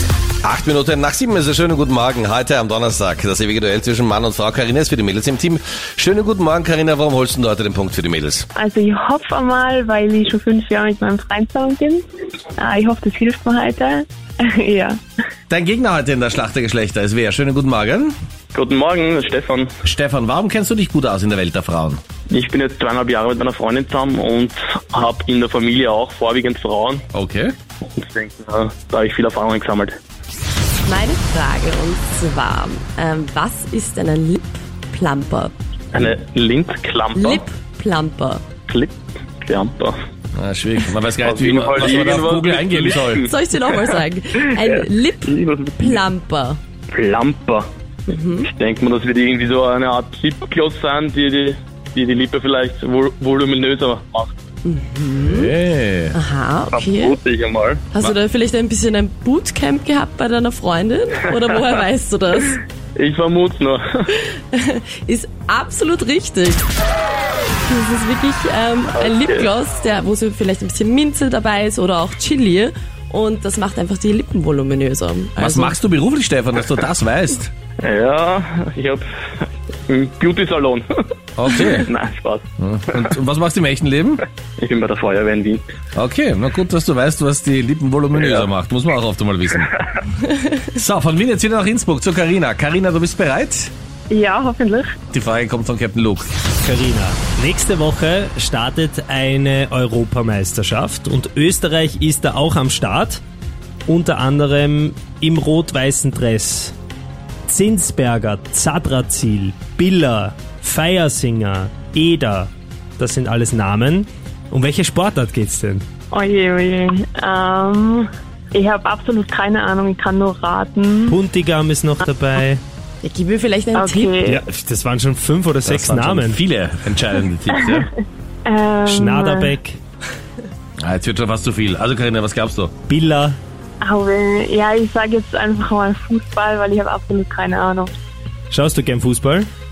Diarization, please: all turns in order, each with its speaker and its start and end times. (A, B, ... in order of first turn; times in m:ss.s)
0:00.4-0:08.5 A
0:08.5-0:12.0 B
0:12.6-0:15.0 B
0:15.5-0:18.1 A
0:18.5-0:19.7 C
0:19.8-0:22.0 A
0:22.3-0:27.0 C
0:27.1-0:27.5 A
0:27.8-0:30.0 C
0:30.8-0:35.5 D
0:35.9-0:37.4 C
0:37.1-0:38.4 D
0:38.7-0:40.0 C
0:40.3-0:43.3 A
0:41.2-0:43.3 C
0:43.3-0:46.6 D
0:44.6-0:46.0 C
0:46.9-0:47.7 C
0:48.1-0:48.5 D
0:48.4-0:54.3 C
0:54.6-0:55.5 D
0:55.2-0:56.2 A
0:56.1-0:57.2 D
0:56.7-0:57.8 C
0:57.9-1:02.6 D
1:02.9-1:04.1 C
1:04.2-1:06.7 D
1:07.6-1:15.8 D
1:08.9-1:09.5 C
1:15.4-1:17.5 A
1:17.8-1:22.5 C
1:21.4-1:21.9 A
1:22.6-1:24.2 A
1:24.6-1:25.6 C
1:25.9-1:29.7 A
1:28.2-1:28.5 C
1:30.7-1:33.7 A
1:34.1-1:35.0 B
1:35.1-1:36.3 A
1:36.6-1:43.2 E
1:43.9-1:46.7 E
1:47.5-1:55.8 E
1:56.1-2:01.2 B
2:01.1-2:02.6 E
2:03.0-2:04.1 D
2:03.7-2:04.4 B
2:04.2-2:06.4 E
2:05.6-2:07.9 A
2:08.4-2:09.5 B
2:08.9-2:09.8 E
2:10.8-2:12.7 A
2:12.9-2:13.4 E
2:13.8-2:17.9 B
2:18.5-2:19.5 E